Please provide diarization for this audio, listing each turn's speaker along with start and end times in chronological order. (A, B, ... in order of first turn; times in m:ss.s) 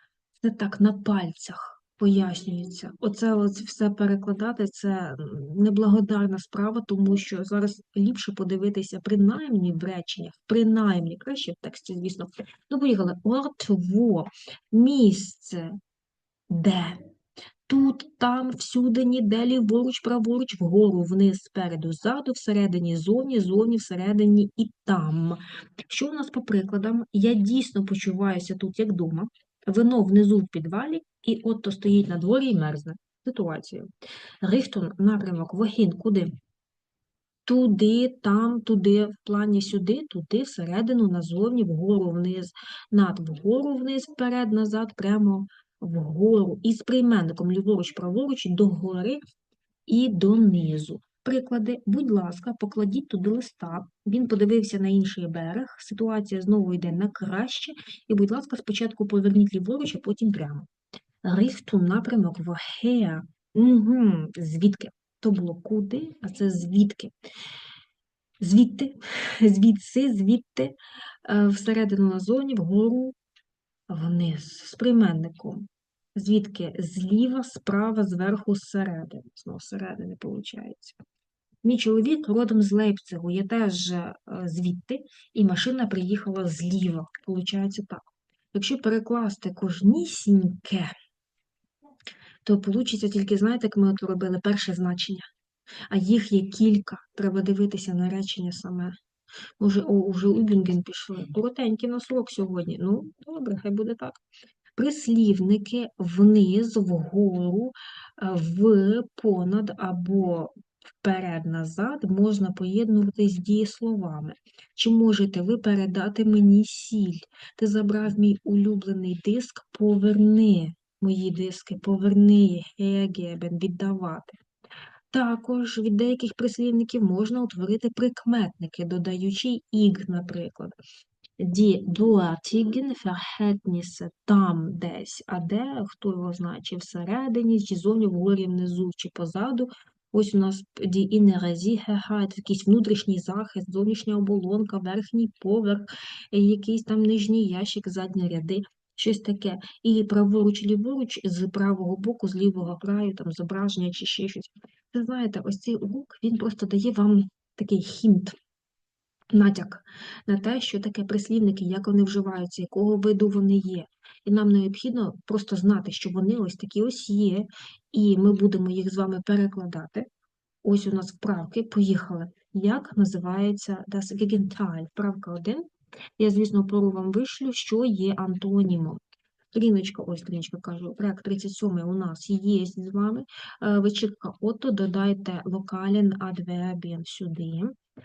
0:00.4-0:15.8 A
0:16.5-0:17.0 A
0:17.7-0:33.9 A
0:34.4-0:36.3 A
0:37.4-0:49.2 A
0:49.9-1:00.7 A
1:01.2-1:07.1 A
1:08.4-1:13.1 A
1:13.9-1:15.6 A
1:16.2-1:21.0 A
1:21.6-1:30.9 A
1:32.4-1:35.2 A
1:35.9-1:39.0 A
1:39.6-1:44.2 A
1:44.8-2:04.4 A
2:05.1-2:10.7 A
2:11.4-2:38.3 A
2:39.3-2:50.1 A
2:50.6-2:59.0 A
2:59.5-3:07.7 A